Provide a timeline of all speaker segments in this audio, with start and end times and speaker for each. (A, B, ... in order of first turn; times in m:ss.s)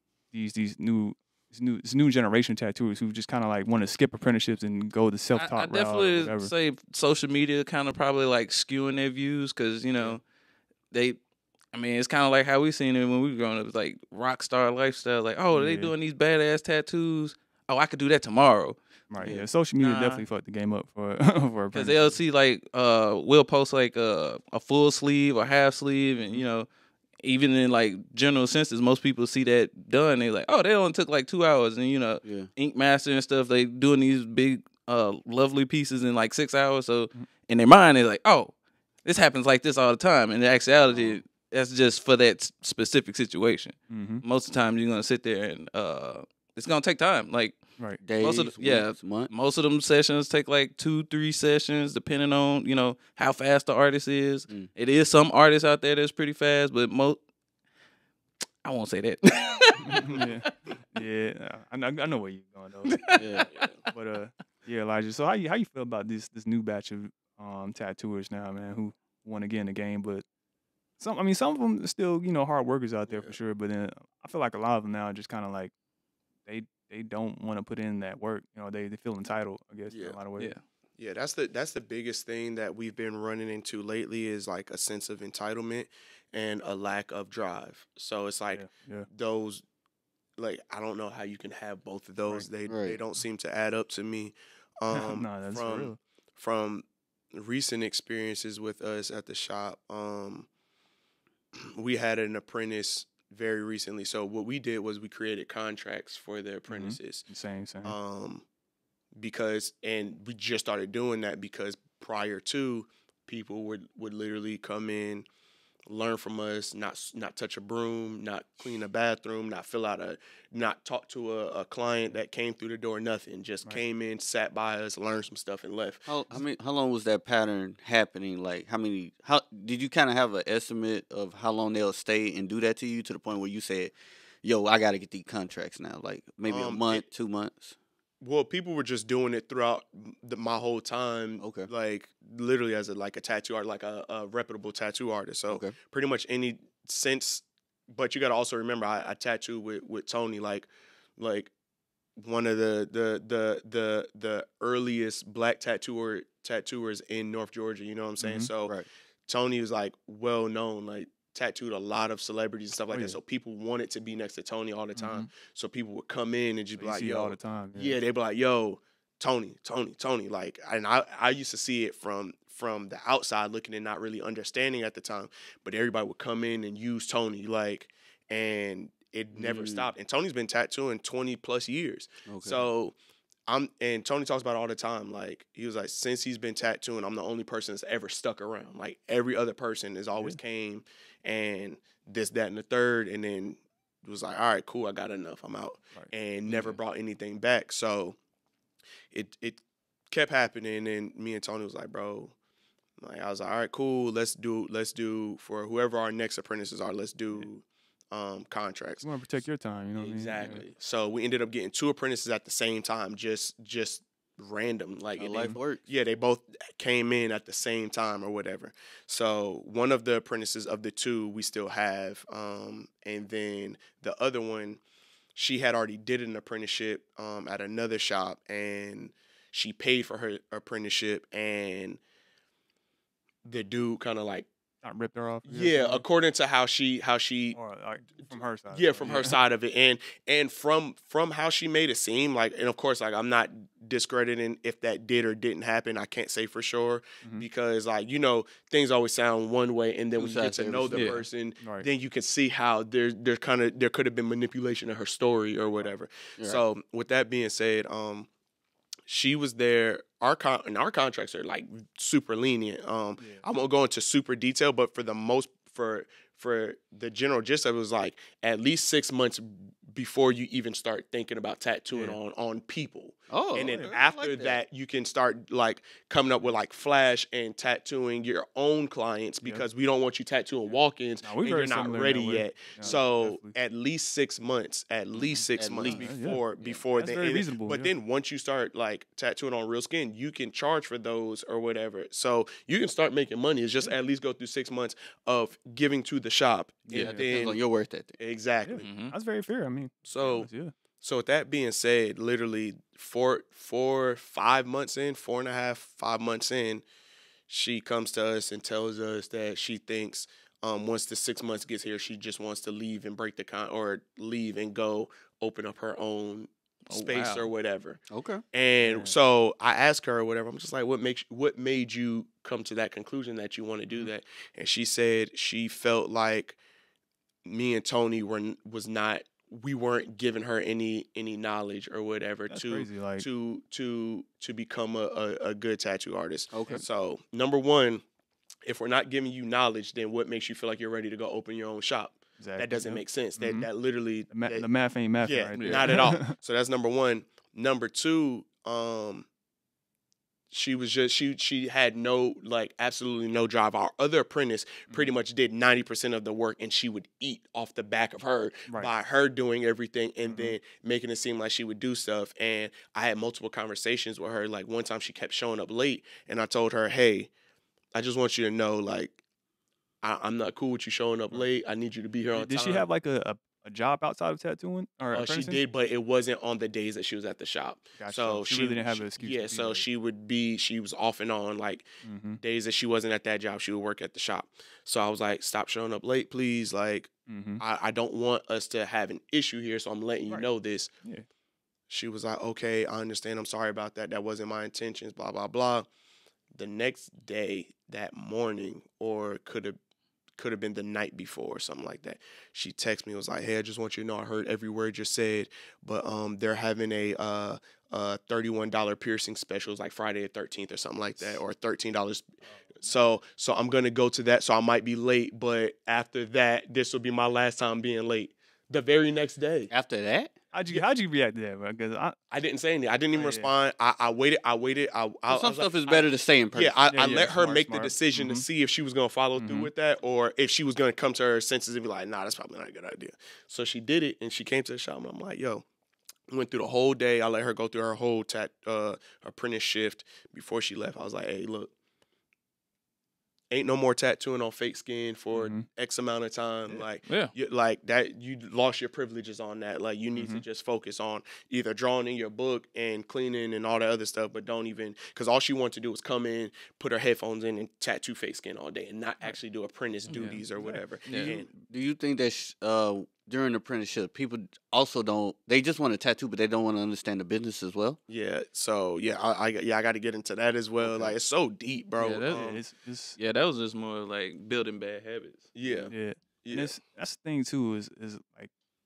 0:00.3-0:06.5 A
0:05.3-0:10.2 B
0:10.9-0:11.2 B
0:11.7-0:20.2 B
0:15.5-0:15.9 A
0:19.1-0:22.0 A
0:21.7-0:26.7 B
0:27.2-0:38.5 B
0:39.0-0:47.6 B
0:43.9-0:44.2 A
0:48.0-0:49.3 C
0:48.2-0:57.2 B
0:58.6-1:00.2 B
0:59.8-1:03.1 A
1:02.9-1:03.7 B
1:03.2-1:03.5 C
1:03.9-1:10.2 A
1:11.0-1:15.7 A
1:13.1-1:13.4 D
1:16.4-1:20.5 A
1:19.9-1:20.2 D
1:21.0-1:29.6 D
1:28.5-1:29.1 A
1:30.4-1:40.5 D
1:32.7-1:33.0 C
1:34.9-1:36.0 A
1:41.6-1:47.2 D
1:46.7-1:48.0 A
1:47.8-1:48.4 D
1:49.2-1:55.2 D
1:55.8-2:06.0 D
2:06.1-2:17.7 C
2:16.5-2:17.0 D
2:18.2-2:31.5 D
2:21.4-2:21.7 C
2:25.5-2:25.7 C
2:32.2-3:03.0 D
2:38.2-2:38.5 A
2:42.9-2:43.2 A
2:45.0-2:45.3 A
2:46.8-2:48.0 A
2:59.3-2:59.9 C
3:02.3-3:02.7 C
3:03.5-3:18.2 D
3:19.1-3:22.3 D
3:23.0-3:29.0 D
3:29.0-3:30.6 A
3:30.0-3:44.8 D
3:35.2-3:35.8 C
3:45.3-3:52.0 D
3:53.4-3:54.5 D
3:54.8-3:56.0 A
3:55.4-3:57.6 D
3:57.5-3:59.4 A
3:58.7-4:18.3 D
4:10.2-4:11.1 C
4:10.9-4:11.2 B
4:11.0-4:11.9 A
4:19.1-4:57.6 D
4:23.2-4:23.4 A
4:31.9-4:32.2 A
4:33.3-4:34.6 C
4:41.2-4:43.5 A
4:45.6-4:46.8 C
4:45.9-4:46.4 A
4:46.9-4:47.9 A
4:56.9-4:57.2 A
4:56.9-4:58.2 C
4:58.2-4:58.9 D
4:58.6-5:00.7 A
4:58.8-4:59.1 B
5:00.0-5:00.5 D
5:01.0-5:06.8 D
5:07.5-5:18.0 D
5:16.9-5:17.5 B
5:18.1-5:18.4 C
5:18.5-5:26.6 D
5:18.8-5:19.2 A
5:27.4-5:38.0 D
5:32.5-5:33.2 A
5:36.5-5:36.8 C
5:38.6-5:44.7 D
5:42.4-5:43.7 A
5:44.3-5:46.4 A
5:45.2-5:49.2 D
5:45.6-5:46.0 B
5:50.5-6:07.3 D
6:00.2-6:00.6 A
6:07.9-6:09.2 D
6:10.0-6:12.9 D
6:12.3-6:15.6 A
6:15.1-6:21.9 D
6:18.0-6:19.8 A
6:22.0-6:22.4 A
6:22.4-6:30.9 D
6:27.3-6:27.6 A
6:31.9-6:35.9 D
6:36.5-6:39.8 D
6:40.4-6:59.7 D
6:59.7-7:00.3 C
7:00.5-7:02.2 A
7:02.3-7:15.6 D
7:03.1-7:03.5 A
7:05.3-7:06.9 C
7:06.9-7:08.4 A
7:09.4-7:09.7 A
7:16.3-7:21.7 D
7:23.5-7:41.5 D
7:25.3-7:25.6 A
7:27.0-7:27.3 B
7:30.1-7:30.4 A
7:40.1-7:41.4 A
7:41.1-7:41.4 B
7:41.7-7:48.0 C
7:48.1-7:52.6 D
7:50.8-7:51.1 C
7:52.0-7:52.6 B
7:52.3-7:53.2 A
7:53.2-7:55.8 B
7:55.5-7:56.7 D
7:55.9-7:58.5 A